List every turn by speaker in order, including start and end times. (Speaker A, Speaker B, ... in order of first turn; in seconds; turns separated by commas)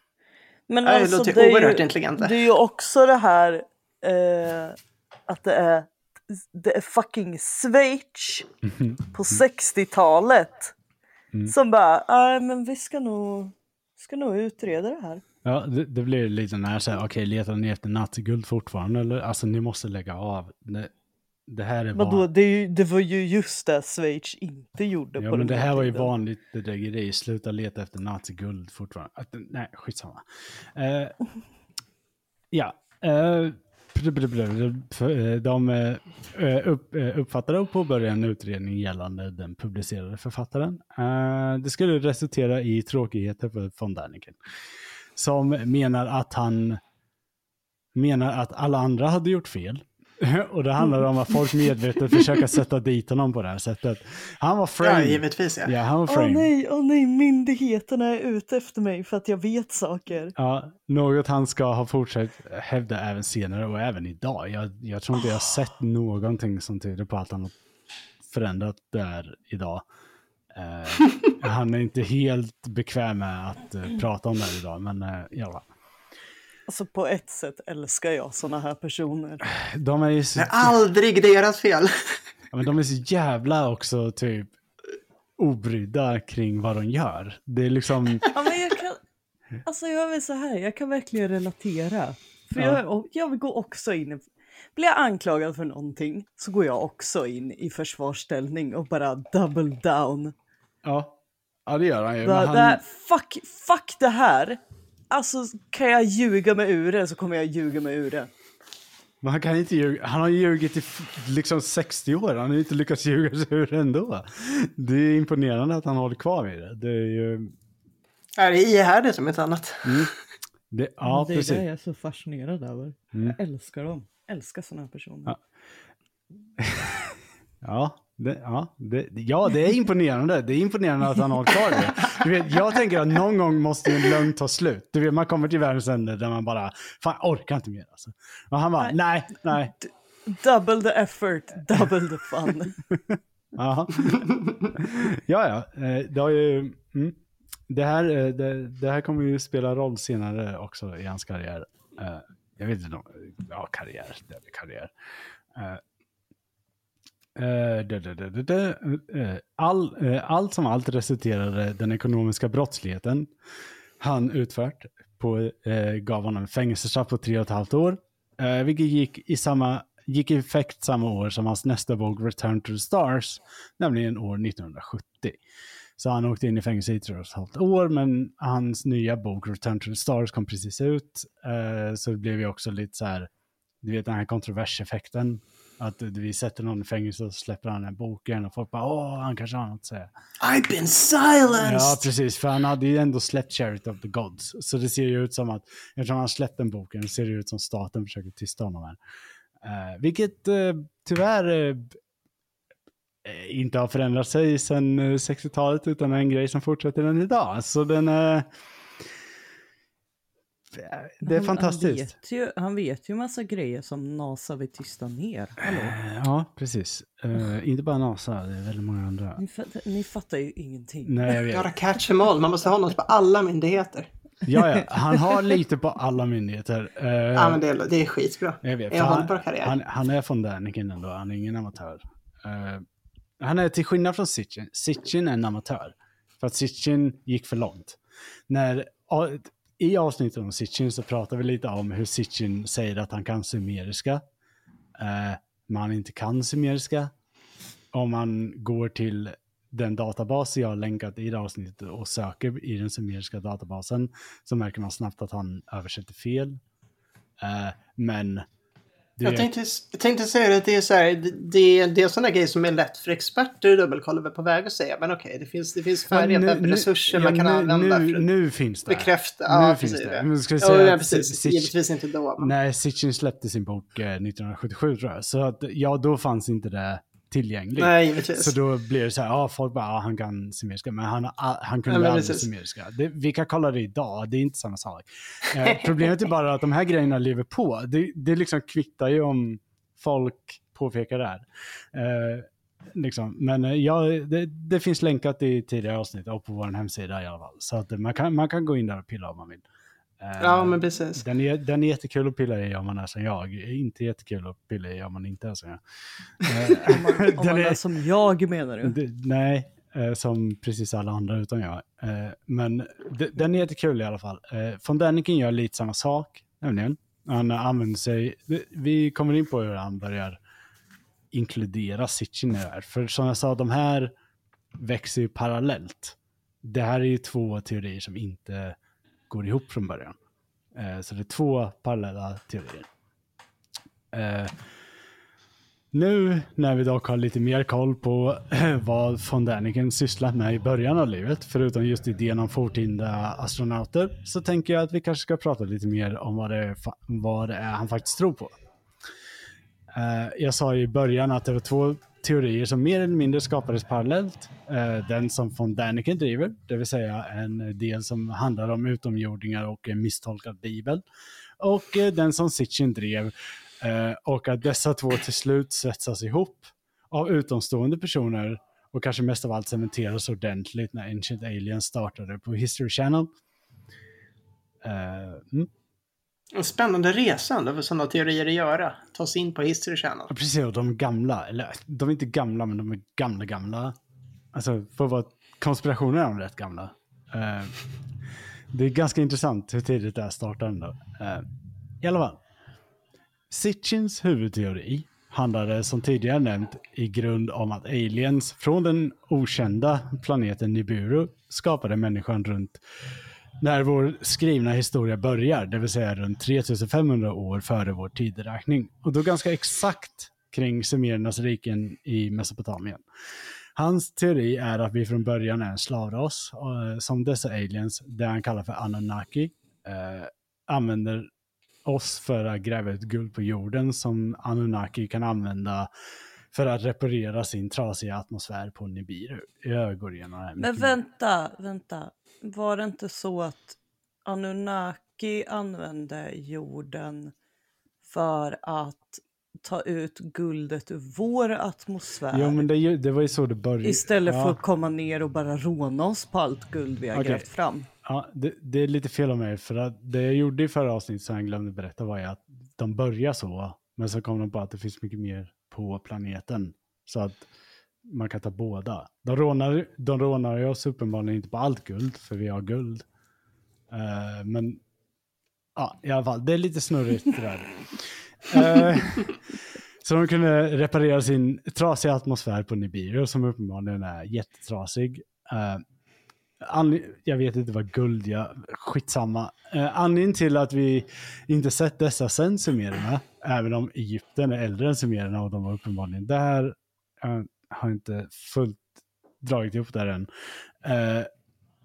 Speaker A: 0.7-8.5, Speaker B: 0.8-2.4, Speaker C: 8.6-9.4, Speaker A: 9.1-10.7, Speaker A: 11.5-15.2, Speaker C: 15.4-20.9, Speaker C: 21.5-22.3, Speaker A: 21.9-26.1, Speaker C: 25.2-30.2, Speaker C: 30.8-31.2, Speaker C: 32.5-44.4, Speaker C: 45.2-46.8, Speaker C: 48.0-56.5, Speaker B: 54.8-55.8, Speaker A: 56.1-60.3, Speaker C: 60.4-67.5, Speaker C: 68.2-69.8, Speaker C: 70.5-75.7, Speaker A: 76.7-79.4, Speaker C: 79.5-80.8, Speaker B: 80.4-82.1, Speaker C: 82.5-84.5, Speaker C: 85.4-88.3, Speaker A: 88.3-89.0, Speaker A: 89.7-100.3, Speaker C: 100.8-102.8, Speaker A: 102.2-104.6, Speaker A: 105.1-108.3, Speaker C: 109.2-117.5, Speaker B: 118.4-120.1, Speaker C: 119.8-120.1, Speaker C: 120.7-121.7, Speaker A: 121.1-125.3, Speaker C: 126.6-139.8, Speaker A: 139.8-142.8, Speaker C: 142.9-147.2, Speaker C: 147.7-154.9, Speaker C: 155.6-155.8, Speaker C: 157.4-163.3, Speaker C: 164.0-175.4, Speaker C: 176.0-183.3, Speaker C: 183.8-190.1, Speaker B: 190.4-192.1, Speaker C: 191.6-199.0, Speaker C: 199.6-202.0, Speaker C: 203.2-208.5, Speaker C: 210.8-212.1, Speaker A: 211.2-216.0, Speaker C: 215.6-219.4, Speaker A: 219.4-221.4, Speaker C: 221.1-221.7, Speaker B: 221.5-224.1, Speaker C: 224.5-227.6, Speaker B: 227.3-229.8, Speaker C: 228.6-232.8, Speaker C: 233.4-244.2, Speaker C: 245.0-247.1, Speaker C: 247.9-256.6, Speaker C: 257.4-258.5, Speaker C: 259.2-259.5, Speaker B: 259.2-268.3, Speaker C: 266.1-271.7, Speaker B: 268.9-272.5, Speaker C: 272.4-299.6, Speaker B: 277.8-278.6, Speaker B: 281.9-282.5, Speaker C: 300.2-305.8, Speaker B: 300.4-301.2, Speaker C: 306.4-307.8, Speaker A: 306.8-309.0, Speaker C: 308.8-320.4, Speaker C: 321.3-324.1, Speaker C: 324.8-328.8, Speaker C: 329.3-330.2, Speaker C: 330.7-332.9, Speaker C: 334.1-334.5, Speaker C: 335.9-348.6, Speaker C: 349.9-361.0, Speaker C: 361.6-373.3, Speaker C: 374.8-375.7, Speaker B: 376.5-380.3, Speaker C: 380.3-384.0, Speaker C: 384.5-387.8, Speaker C: 388.7-391.5, Speaker C: 392.0-392.4, Speaker C: 393.5-402.8, Speaker C: 403.6-413.0, Speaker C: 413.8-421.3, Speaker C: 421.9-425.9, Speaker C: 426.5-431.0, Speaker A: 430.6-437.3, Speaker A: 438.1-442.7, Speaker C: 442.3-444.6, Speaker A: 443.8-447.9, Speaker C: 447.1-447.4, Speaker C: 448.1-457.5, Speaker C: 458.1-463.1, Speaker C: 463.9-464.8, Speaker C: 465.8-469.4, Speaker C: 470.0-475.8, Speaker C: 476.6-488.9, Speaker C: 489.4-490.3, Speaker C: 490.8-491.3